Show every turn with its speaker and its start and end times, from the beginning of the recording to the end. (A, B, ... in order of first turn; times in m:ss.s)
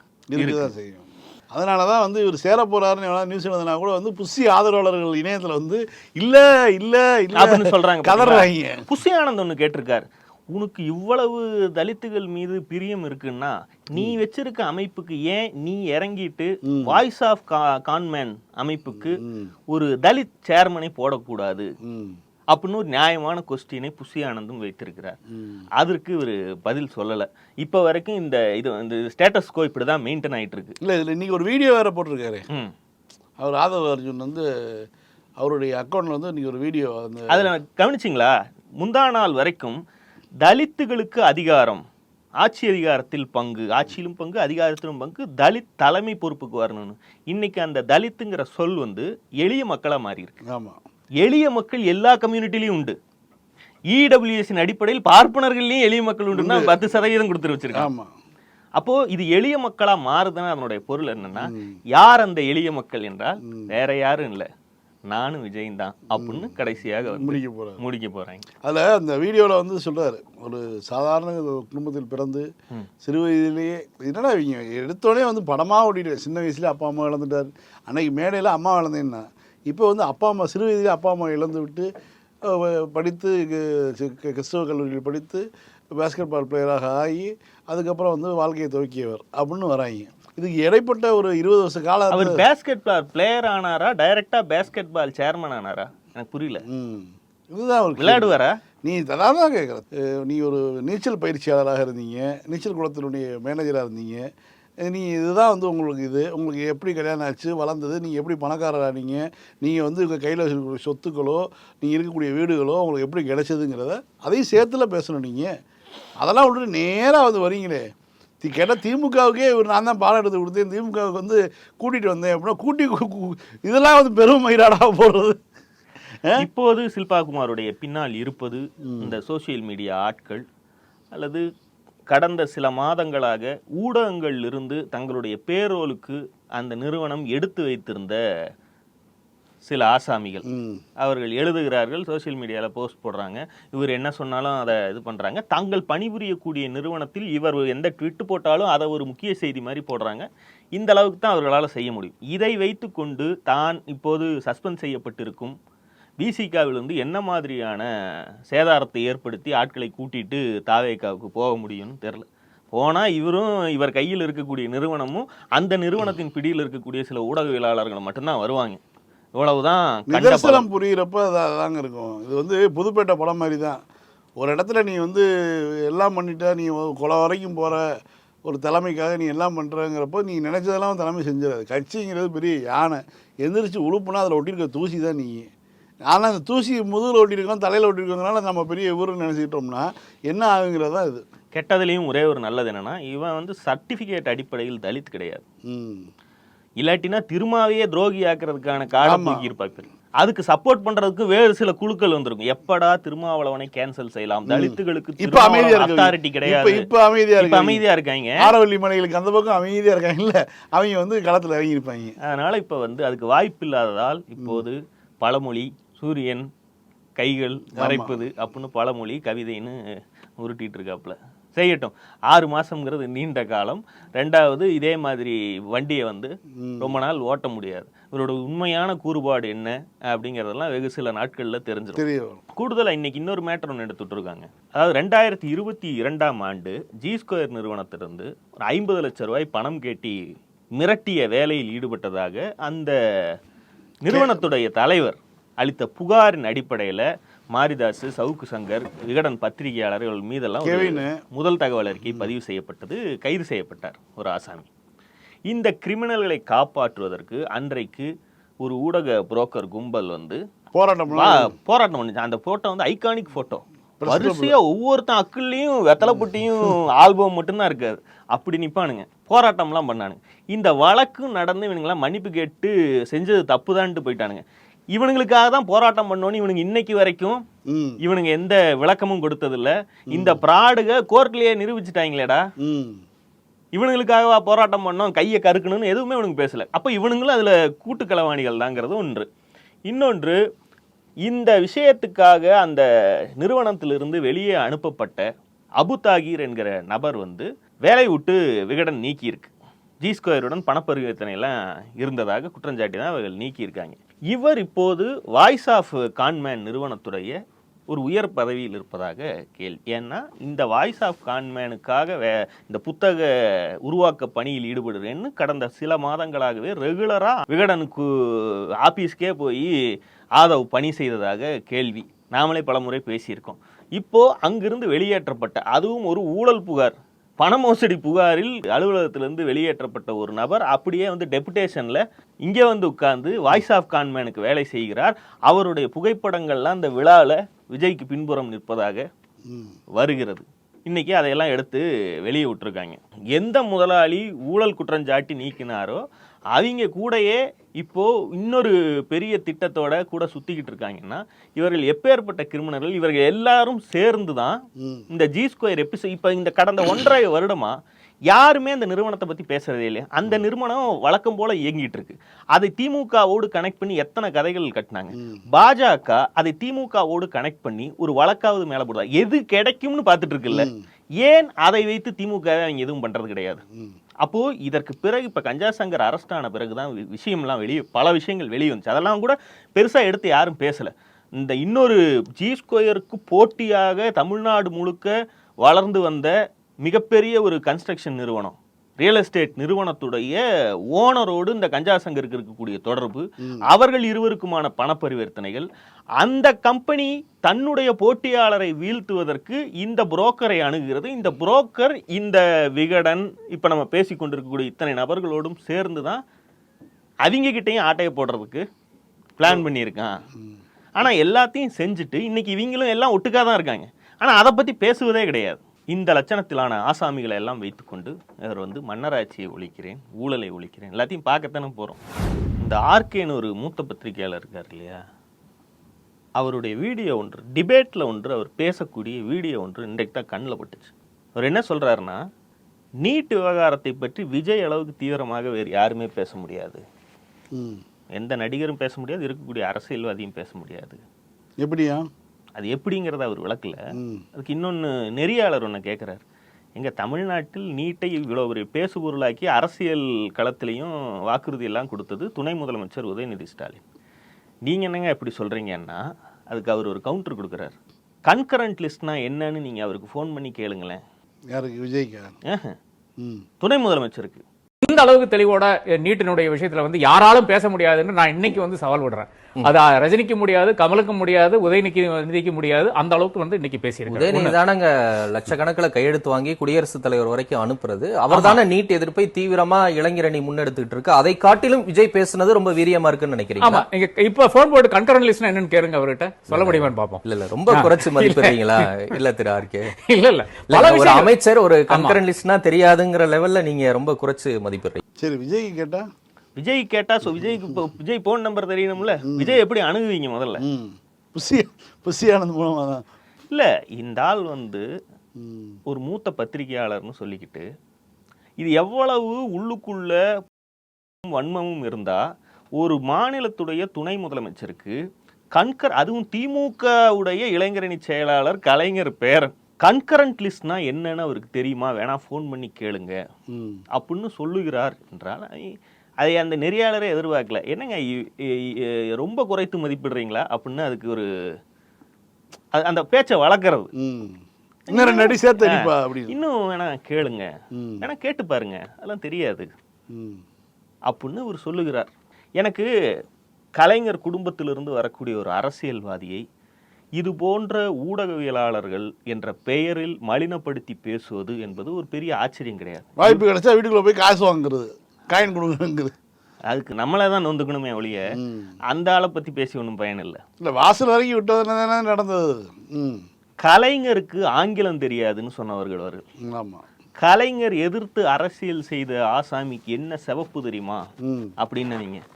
0:00.3-0:08.8 A
0:00.4-0:00.7 B
0:07.3-0:19.2 B
0:16.6-0:17.0 A
0:18.9-0:19.5 A
0:19.7-0:21.7 B
0:21.8-0:22.2 A
0:22.5-0:25.2 B
0:25.3-0:25.6 A
0:25.8-0:30.8 B
0:30.8-0:32.4 A
0:33.4-0:34.8 A
0:35.4-0:37.5 A
0:37.3-0:39.8 B
0:40.4-0:41.8 B
0:42.4-0:50.4 B
0:50.4-0:50.8 A
0:51.2-0:53.0 B
0:53.9-0:57.9 B
0:56.3-0:56.7 A
0:57.7-0:58.1 A
0:58.8-1:04.5 B
1:01.4-1:01.8 A
1:03.4-1:03.7 A
1:05.1-1:08.4 B
1:06.2-1:06.6 A
1:07.1-1:07.8 A
1:08.6-1:12.5 A
1:13.0-1:21.9 A
1:22.4-1:32.4 A
1:32.1-1:36.6 B
1:36.7-1:44.3 A
1:38.0-1:38.6 B
1:44.8-1:55.5 A
1:56.2-1:57.9 A
1:58.4-2:05.4 A
2:06.4-2:10.4 B
2:08.8-2:09.2 A
2:11.1-2:11.4 B
2:12.1-2:18.2 B
2:19.6-2:20.4 B
2:20.4-2:20.8 A
2:21.0-2:35.6 B
2:36.2-2:37.9 B
2:38.5-2:48.8 B
2:49.4-2:50.6 B
2:50.1-2:53.8 A
2:54.4-3:05.5 A
3:06.1-3:11.2 A
3:11.5-3:15.4 B
3:15.6-3:16.1 A
3:16.8-3:28.4 B
3:19.0-3:19.5 A
3:24.5-3:27.8 A
3:28.4-3:32.1 A
3:32.2-3:36.5 B
3:34.4-3:34.6 A
3:37.2-3:39.8 B
3:37.7-3:38.2 A
3:40.4-3:52.0 B
3:46.5-3:47.0 A
3:52.0-3:52.4 A
3:52.5-4:00.2 B
4:00.8-4:02.9 B
4:04.0-4:14.7 B
4:04.1-4:04.4 A
4:10.6-4:11.2 A
4:12.0-4:12.3 A
4:15.5-4:18.1 B
4:18.6-4:20.4 B
4:20.7-4:21.5 A
4:21.1-4:34.4 B
4:24.0-4:24.6 A
4:26.1-4:26.7 A
4:34.9-4:37.4 B
4:37.7-4:38.0 A
4:38.0-4:42.4 B
4:40.1-4:40.4 A
4:42.6-4:43.0 A
4:43.7-4:49.3 B
4:49.9-4:50.4 B
4:51.3-4:52.8 B
4:53.4-4:55.2 B
4:55.8-5:07.4 B
5:07.9-5:13.3 B
5:13.8-5:19.7 B
5:20.4-5:39.0 B
5:39.5-5:39.8 A
5:40.0-5:46.0 B
5:46.5-5:54.6 B
5:54.8-5:55.1 A
5:55.1-5:57.8 B
5:58.3-6:10.7 B
6:05.1-6:05.4 A
6:10.5-6:10.8 A
6:11.2-6:13.6 B
6:13.7-6:14.0 A
6:14.2-6:25.1 B
6:25.6-6:26.3 B
6:26.8-6:30.4 B
6:30.9-6:35.7 B
6:36.2-6:46.2 B
6:47.2-6:48.6 B
6:49.4-6:50.1 B
6:51.0-7:02.0 B
7:02.6-7:05.0 B
7:06.4-7:12.2 B
7:13.0-7:16.8 B
7:17.5-7:17.8 A
7:18.2-7:21.0 B
7:21.6-7:22.0 A
7:22.6-7:23.8 B
7:23.9-7:24.2 A
7:24.3-7:26.2 B
7:26.8-7:33.8 B
7:34.6-7:37.7 B
7:38.2-7:41.0 B
7:41.5-7:42.3 A
7:42.4-7:42.8 B
7:43.2-7:43.4 A
7:43.6-7:44.4 B
7:44.8-7:54.6 C
7:54.1-8:03.8 D
7:58.3-7:58.6 C
8:03.6-8:09.2 C
8:06.5-8:09.9 D
8:10.0-8:11.3 C
8:10.7-8:15.0 D
8:11.9-8:12.2 C
8:15.2-8:16.1 A
8:16.6-8:20.6 B
8:19.2-8:19.6 A
8:20.6-8:23.0 A
8:23.5-8:24.8 B
8:25.4-8:25.8 A
8:25.9-8:27.6 B
8:28.6-8:30.4 B
8:31.2-8:32.2 B
8:32.8-8:35.0 B
8:35.5-8:43.2 B
8:43.5-8:43.8 A
8:43.9-8:51.3 B
8:52.7-8:53.9 B
8:54.0-8:56.4 A
8:54.9-8:57.5 B
8:57.7-8:58.0 A
8:58.0-8:59.7 B
9:00.1-9:00.4 A
9:01.1-9:02.9 B
9:03.8-9:06.4 B
9:07.2-9:13.4 B
9:13.2-9:16.1 A
9:16.7-9:18.3 B
9:18.3-9:18.7 A
9:18.9-9:20.4 B
9:20.6-9:23.2 A
9:23.6-9:26.2 B
9:26.4-9:26.8 A
9:27.2-9:31.0 B
9:31.2-9:31.5 A
9:31.6-9:32.2 B